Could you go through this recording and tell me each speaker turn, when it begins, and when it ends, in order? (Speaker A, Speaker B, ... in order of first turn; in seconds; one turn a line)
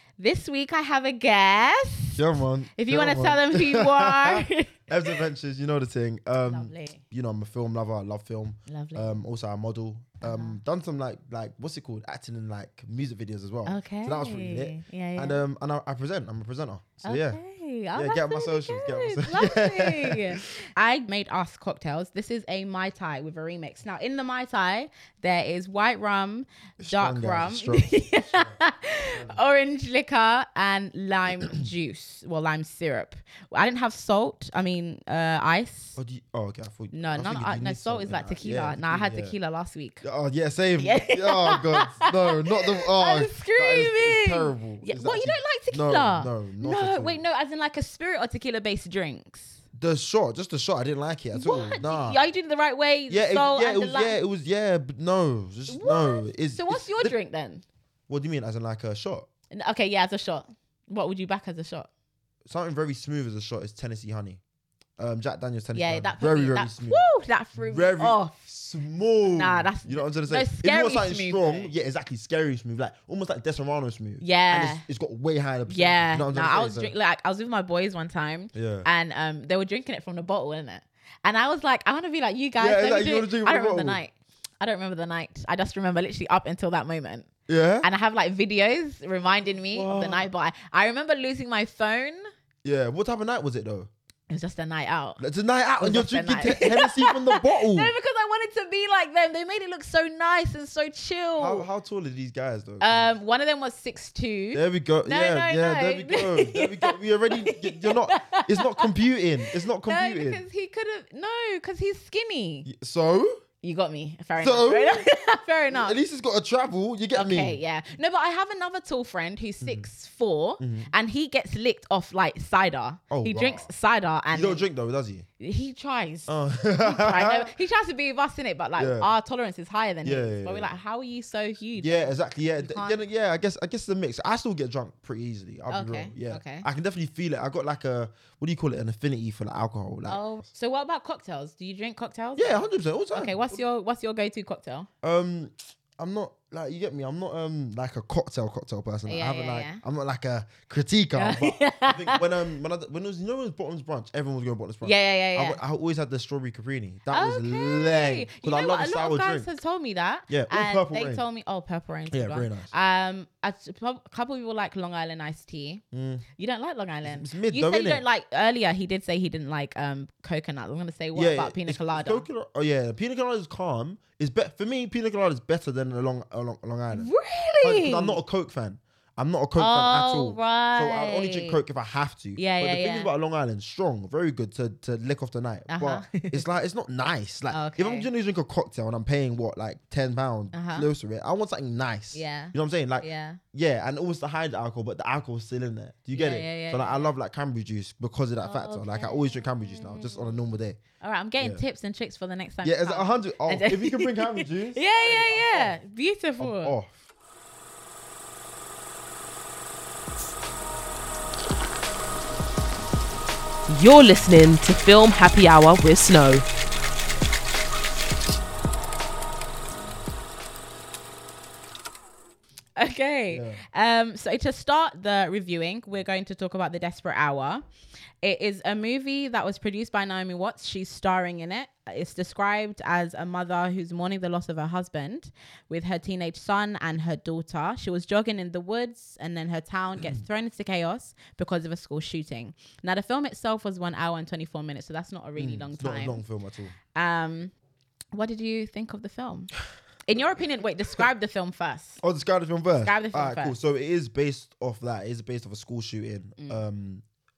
Speaker A: 0.2-2.2
Speaker B: 2.1-17.4
Speaker A: 2.8-5.2
Speaker A: 6.5-7.0
Speaker A: 8.7-9.1
Speaker A: 10.2-10.6
Speaker A: 13.7-15.4
Speaker A: 17.0-36.0
Speaker B: 17.9-20.5
Speaker B: 26.8-29.4
Speaker B: 36.0-39.4
Speaker A: 36.9-40.0
Speaker B: 40.0-47.2
Speaker A: 40.8-49.6
Speaker B: 49.8-52.2
Speaker A: 51.3-54.2
Speaker B: 53.1-57.1
Speaker A: 55.7-57.6
Speaker B: 58.1-59.3
Speaker A: 59.5-61.9
Speaker B: 62.5-64.4
Speaker B: 65.0-76.9
Speaker A: 65.7-68.4
Speaker A: 69.3-71.7
Speaker A: 74.2-74.9
Speaker A: 75.7-87.3
Speaker B: 78.5-78.9
Speaker B: 82.6-84.0
Speaker B: 87.5-87.9
Speaker A: 87.8-92.3
Speaker B: 89.7-90.3
Speaker B: 92.6-93.9
Speaker A: 94.3-95.2
Speaker B: 95.2-97.9
Speaker A: 95.8-101.7
Speaker B: 101.4-103.1
Speaker A: 102.8-108.9
Speaker B: 104.5-110.4
Speaker A: 109.8-112.7
Speaker B: 112.7-113.4
Speaker A: 113.6-116.0
Speaker B: 114.4-115.0
Speaker B: 115.7-117.6
Speaker A: 117.1-124.7
Speaker B: 120.6-120.9
Speaker B: 123.1-123.7
Speaker B: 124.3-125.3
Speaker A: 125.4-133.0
Speaker B: 126.3-127.5
Speaker B: 128.8-129.1
Speaker B: 130.1-130.7
Speaker B: 131.8-140.2
Speaker A: 135.7-136.7
Speaker A: 140.1-144.9
Speaker B: 142.4-143.6
Speaker B: 145.0-159.5
Speaker A: 149.1-149.8
Speaker A: 151.2-152.2
Speaker A: 154.8-155.6
Speaker A: 157.1-165.8
Speaker B: 160.3-161.2
Speaker B: 162.1-162.7
Speaker B: 165.9-166.2
Speaker A: 166.4-172.2
Speaker B: 167.1-168.0
Speaker B: 171.2-200.8
Speaker A: 176.9-178.2
Speaker A: 179.6-181.6
Speaker A: 182.4-183.1
Speaker A: 185.7-186.5
Speaker A: 187.5-188.1
Speaker A: 190.5-190.9
Speaker A: 192.1-193.4
Speaker A: 196.1-197.1
Speaker A: 198.4-200.3
Speaker A: 201.0-206.7
Speaker B: 202.6-205.8
Speaker B: 206.4-207.0
Speaker C: 213.7-216.4
Speaker A: 222.8-227.6
Speaker B: 223.3-223.6
Speaker A: 228.2-246.2
Speaker B: 245.4-246.7
Speaker A: 246.9-247.5
Speaker A: 248.1-249.5
Speaker A: 250.1-252.0
Speaker B: 252.0-257.0
Speaker A: 252.8-253.6
Speaker A: 256.4-256.6